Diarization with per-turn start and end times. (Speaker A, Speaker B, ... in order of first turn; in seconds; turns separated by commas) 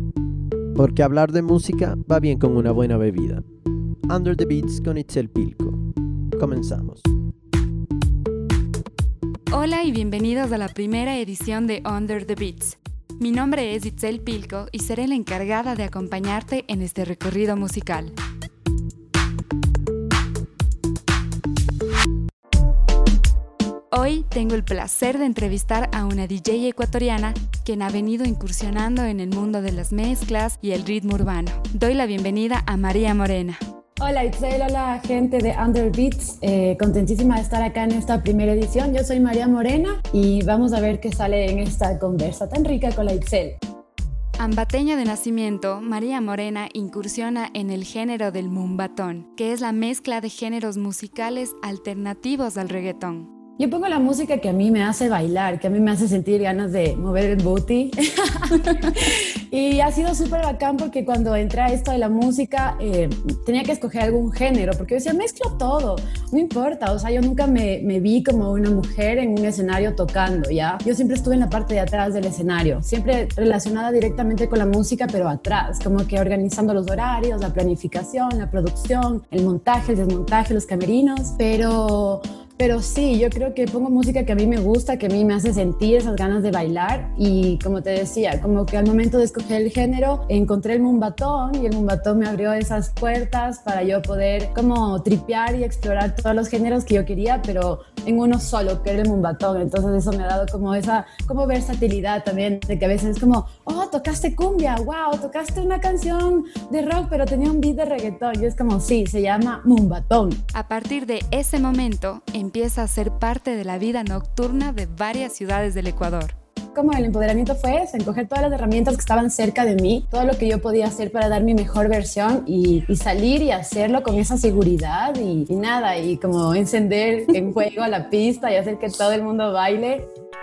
Speaker A: 0.8-3.4, Speaker A: 4.1-5.8, Speaker A: 6.3-7.1, Speaker B: 9.5-18.1, Speaker B: 23.9-33.6, Speaker C: 34.0-43.6, Speaker B: 44.4-53.3, Speaker C: 53.6-110.4, Speaker B: 110.5-116.3, Speaker C: 116.8-130.1